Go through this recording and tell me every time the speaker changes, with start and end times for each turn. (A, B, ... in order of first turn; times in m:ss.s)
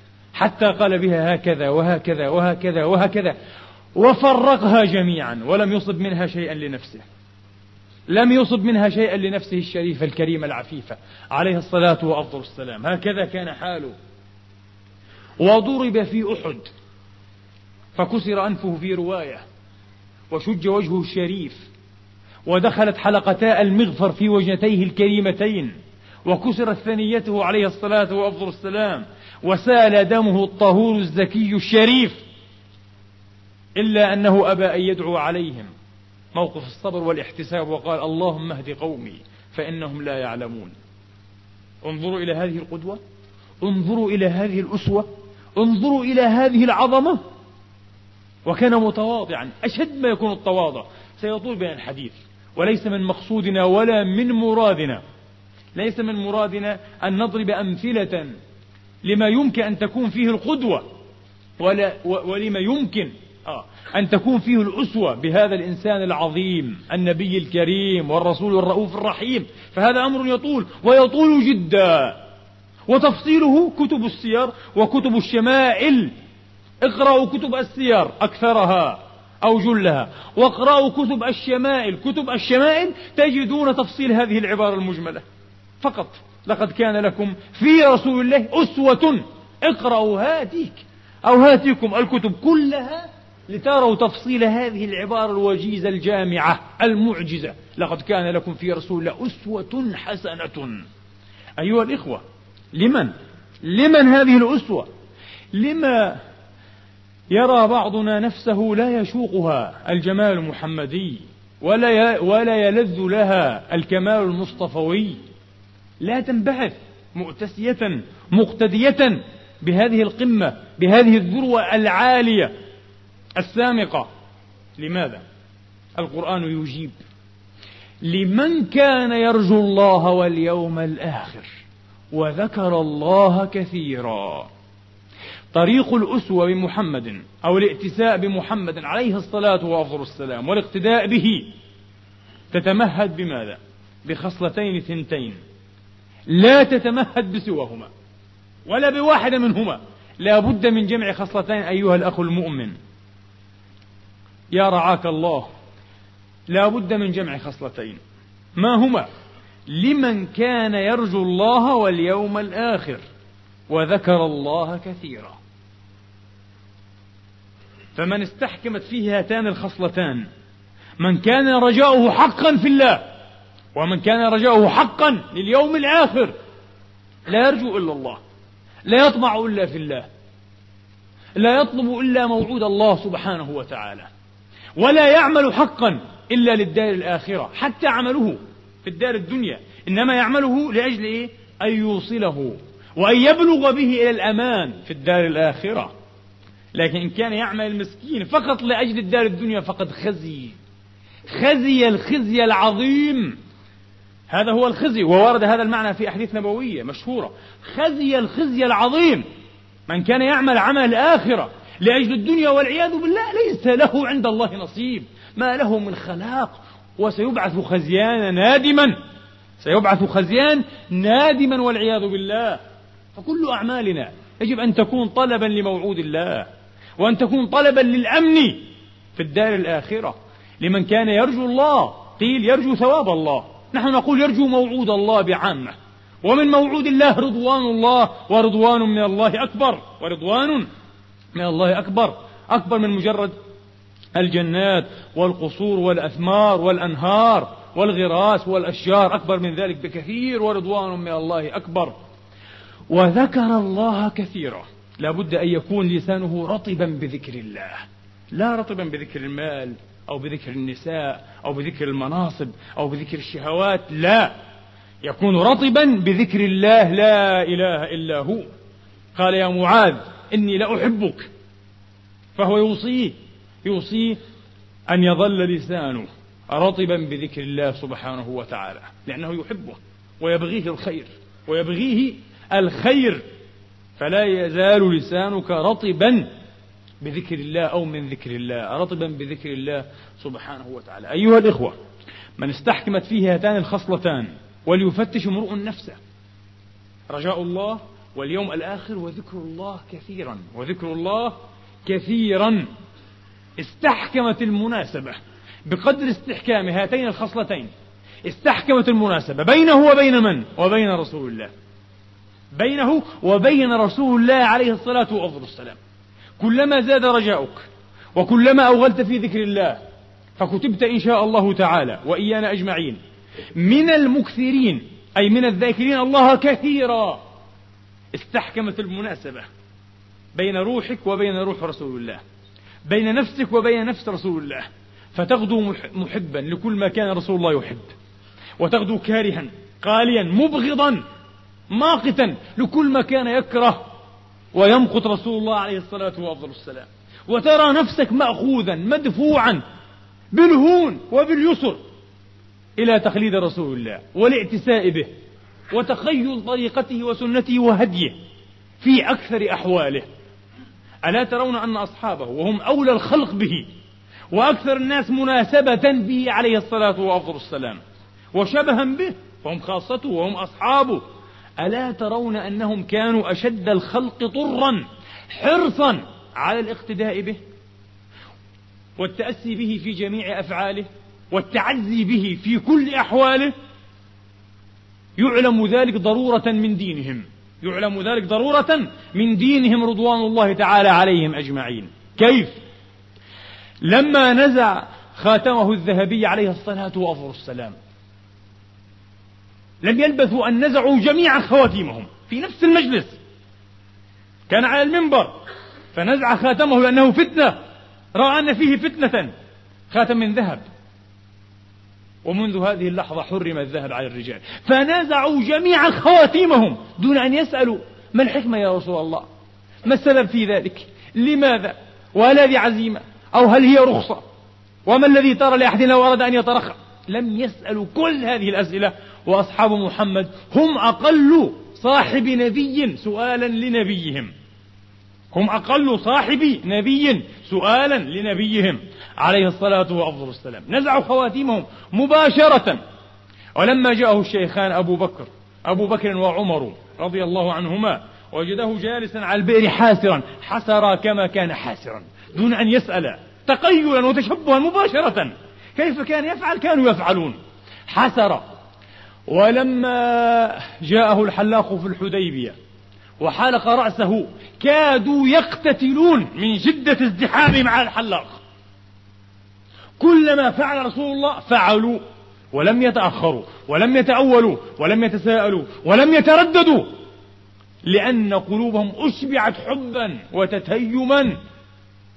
0:00.3-0:03.4 A
0:04.0-0:07.0 A
0:08.1-0:13.9 A
0:15.4-0:16.7 A
0:18.0-0:19.4 A
0:20.3-0:21.7 A
0:22.5-0:25.7 A
0:26.2-0:32.2 A
0:33.8-0:35.7 A
0:36.3-0:40.8 A
0:41.8-0:43.0 A
0:43.6-0:47.2 A
0:48.4-0:55.0 A
0:55.8-0:58.4 A
0:59.0-1:00.9 A
1:01.6-1:12.2 A
1:12.9-1:16.1 A
1:16.8-1:25.2 A
1:25.8-1:40.8 A
1:41.6-1:42.2 A
1:42.7-1:44.9 A
1:45.5-1:46.2 A
1:47.3-1:55.2 A
1:56.0-2:02.5 A
2:03.4-2:04.1 A
2:04.8-2:05.2 A
2:06.0-2:07.0 A
2:08.0-2:11.5 A
2:12.1-2:14.5 A
2:15.5-2:21.5 A
2:22.5-2:25.4 A
2:26.3-2:27.9 A
2:28.7-2:32.8 A
2:34.5-2:35.5 A
2:36.5-2:38.0 A
2:38.6-2:39.1 A
2:39.7-2:43.0 A
2:43.7-2:45.4 A
2:48.0-2:50.3 A
2:51.0-2:53.1 A
2:53.7-2:56.3 A
2:57.3-2:58.2 A
2:58.9-3:00.1 A
3:01.4-3:04.1 A
3:04.8-3:15.9 A
3:16.7-3:20.6 A
3:21.3-3:23.4 A
3:24.3-3:29.2 A
3:29.9-3:39.0 A
3:39.6-3:42.6 A
3:43.2-4:00.7 A
4:01.4-4:03.4 A
4:04.2-4:12.0 A
4:12.9-4:24.3 A
4:25.0-4:28.5 A
4:29.2-4:31.3 A
4:32.4-4:34.2 A
4:34.9-4:43.2 A
4:44.0-4:46.3 A
4:47.0-4:51.8 A
4:52.4-4:56.0 A
4:57.1-5:02.7 A
5:03.6-5:07.7 A
5:08.2-5:11.5 A
5:12.5-5:15.8 A
5:16.4-5:19.8 A
5:20.4-5:23.0 A
5:23.6-5:27.2 A
5:28.1-5:29.5 A
5:30.4-5:32.2 A
5:32.9-5:37.9 A
5:38.6-5:41.0 A
5:41.7-5:43.9 A
5:44.5-5:49.6 A
5:50.3-5:51.8 A
5:52.8-5:55.1 A
5:55.7-5:58.2 A
5:58.8-6:00.1 A
6:01.0-6:03.7 A
6:04.3-6:07.8 A
6:08.3-6:11.0 A
6:11.6-6:17.4 A
6:19.0-6:23.5 A
6:25.2-6:32.5 A
6:33.8-6:37.8 A
6:39.8-6:43.2 A
6:44.5-6:45.4 A
6:45.9-6:47.6 A
6:48.1-6:49.3 A
6:49.9-6:50.6 A
6:52.2-6:59.3 A
6:59.8-7:04.2 A
7:04.9-7:14.3 A
7:15.3-7:22.8 A
7:23.6-7:38.4 A
7:39.3-7:42.6 A
7:43.2-7:48.4 A
7:50.0-7:52.0 A
7:52.5-7:56.9 A
7:57.8-8:01.4 A